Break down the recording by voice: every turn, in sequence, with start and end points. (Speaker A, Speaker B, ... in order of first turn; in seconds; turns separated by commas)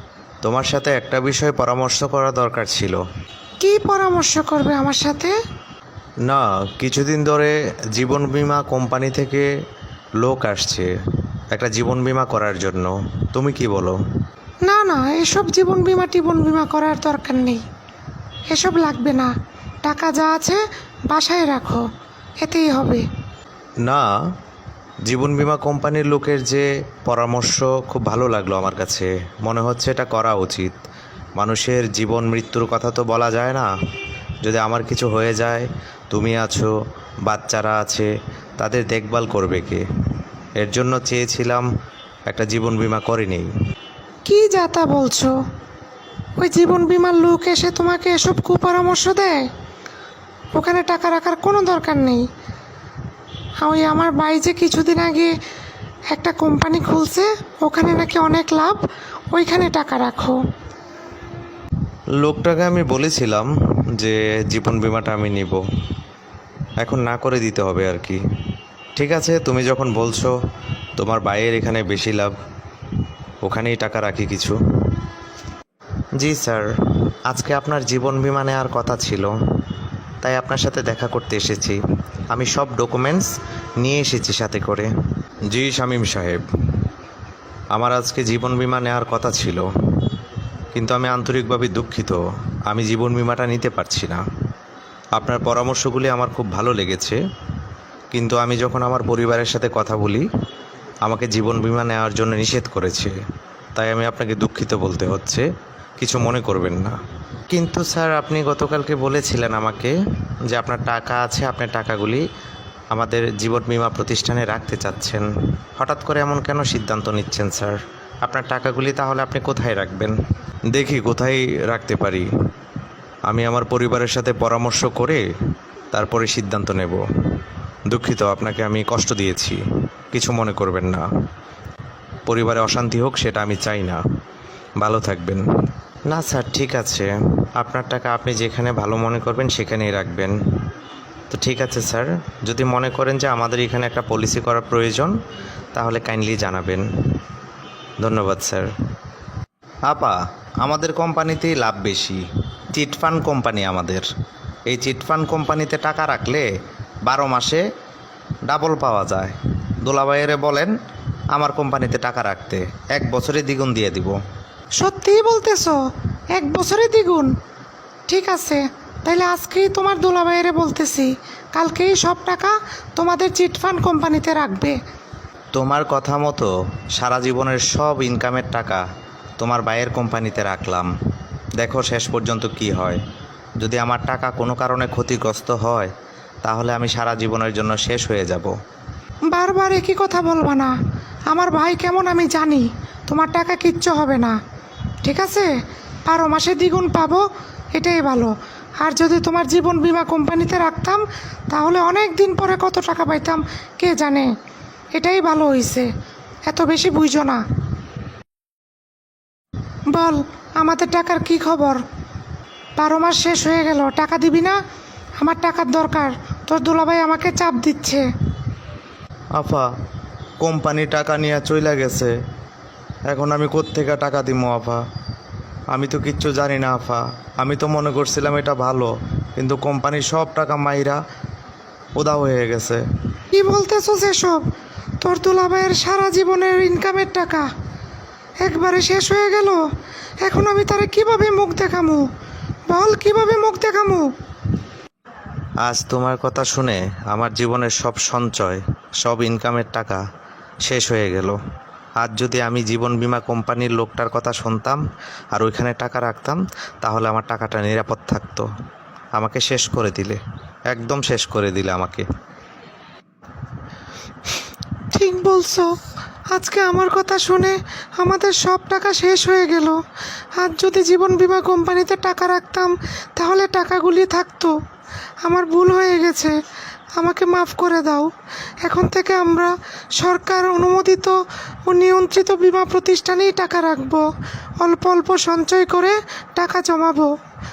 Speaker A: 0.4-3.0, Speaker B: 3.6-5.3, Speaker A: 6.3-9.5, Speaker A: 10.2-10.9, Speaker A: 11.5-14.0, Speaker B: 14.7-17.6, Speaker B: 18.5-19.3, Speaker B: 19.8-21.8, Speaker B: 22.4-23.0, Speaker A: 23.9-24.1, Speaker A: 25.1-30.8, Speaker A: 31.4-33.7, Speaker A: 34.4-36.7, Speaker A: 37.3-39.8, Speaker A: 40.6-41.7, Speaker A: 42.3-43.5, Speaker B: 44.2-45.3, Speaker B: 46.4-49.5, Speaker B: 50.5-52.2, Speaker B: 53.6-55.3, Speaker B: 56.1-60.4, Speaker A: 62.2-65.6, Speaker A: 66.8-68.2, Speaker A: 69.0-70.4, Speaker A: 71.0-72.3, Speaker A: 73.4-74.6, Speaker A: 76.2-76.7, Speaker A: 77.3-79.3, Speaker A: 80.2-81.8, Speaker A: 82.3-84.9, Speaker A: 85.5-86.4, Speaker A: 87.7-89.7, Speaker A: 90.7-94.2, Speaker A: 95.1-97.2, Speaker A: 98.1-100.3, Speaker A: 101.0-103.2, Speaker A: 103.8-105.5, Speaker A: 106.0-107.0, Speaker A: 107.5-110.0, Speaker A: 110.5-112.2, Speaker A: 112.9-120.2, Speaker A: 120.7-122.3, Speaker A: 123.3-125.2, Speaker A: 125.9-127.0, Speaker A: 127.9-129.6, Speaker A: 130.1-131.0, Speaker A: 132.3-134.0, Speaker A: 134.8-135.4, Speaker A: 136.1-140.4, Speaker A: 141.3-145.1, Speaker A: 145.7-146.9, Speaker A: 148.0-148.7, Speaker A: 149.9-154.1, Speaker A: 154.7-156.5, Speaker A: 157.1-157.6, Speaker A: 158.5-160.7, Speaker A: 161.3-164.2, Speaker B: 164.8-165.8, Speaker B: 166.3-167.3, Speaker B: 168.1-174.8, Speaker A: 175.5-178.8, Speaker A: 179.4-180.9, Speaker A: 181.6-183.0, Speaker A: 183.6-185.9, Speaker A: 186.4-188.5, Speaker B: 189.3-190.7, Speaker B: 191.3-194.4, Speaker B: 195.0-195.5, Speaker B: 196.1-197.2, Speaker B: 197.8-204.3, Speaker B: 205.0-205.9, Speaker B: 206.5-207.4, Speaker B: 209.9-211.8, Speaker B: 212.8-214.6, Speaker B: 215.2-218.1, Speaker A: 219.4-219.7, Speaker A: 220.4-222.1, Speaker A: 223.1-224.8, Speaker A: 225.7-231.0, Speaker A: 232.0-232.8, Speaker B: 233.3-234.4, Speaker B: 235.0-237.5, Speaker B: 238.4-239.6, Speaker B: 240.2-242.0, Speaker B: 242.7-244.1, Speaker A: 245.6-250.0, Speaker A: 250.7-251.4, Speaker A: 252.0-254.8, Speaker A: 255.3-258.5, Speaker A: 259.2-260.2, Speaker A: 260.7-262.1, Speaker B: 264.9-265.7, Speaker B: 266.3-269.8, Speaker B: 270.4-274.5, Speaker B: 275.2-276.3, Speaker B: 277.0-278.1, Speaker B: 278.6-281.2, Speaker B: 281.7-284.0, Speaker B: 284.6-287.1